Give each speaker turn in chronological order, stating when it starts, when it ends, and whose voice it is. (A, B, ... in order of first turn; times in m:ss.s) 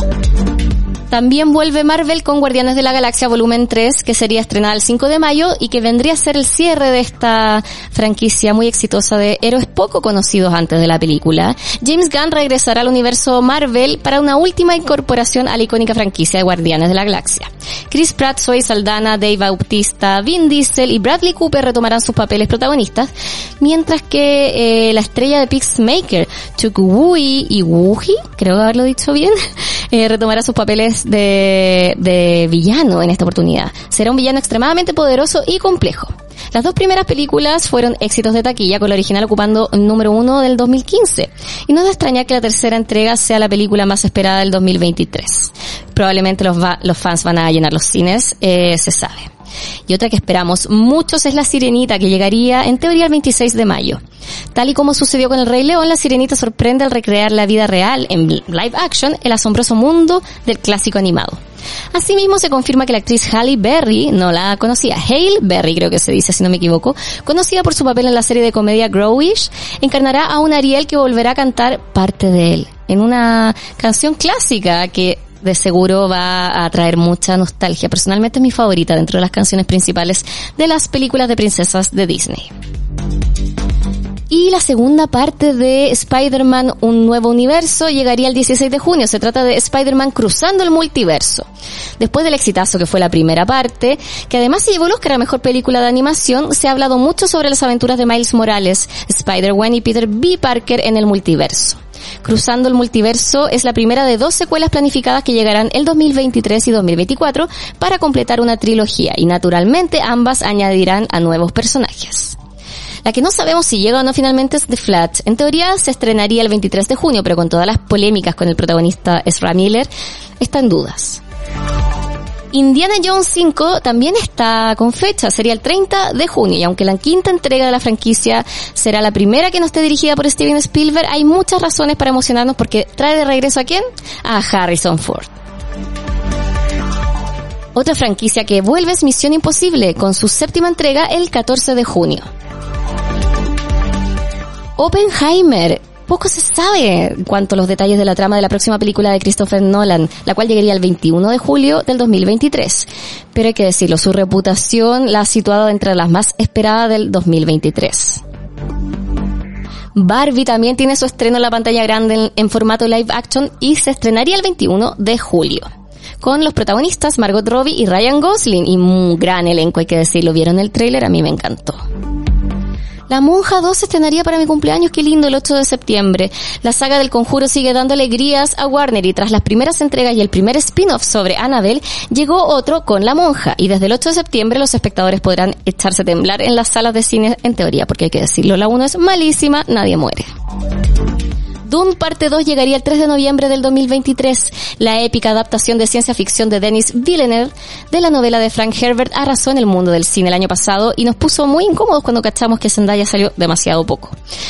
0:01.1-0:29.4 A
0:29.9-0:49.3 A
0:49.9-0:54.0 A
0:54.5-1:01.4 A
1:01.9-1:22.5 A
1:24.3-1:31.5 A
1:32.0-1:52.4 A
1:53.0-2:01.2 A
2:02.5-2:15.3 A
2:17.8-2:22.3 A
2:24.8-2:38.2 A
2:40.0-2:45.7 A
2:46.2-2:51.8 A
2:53.1-3:10.3 A
3:11.6-3:24.2 A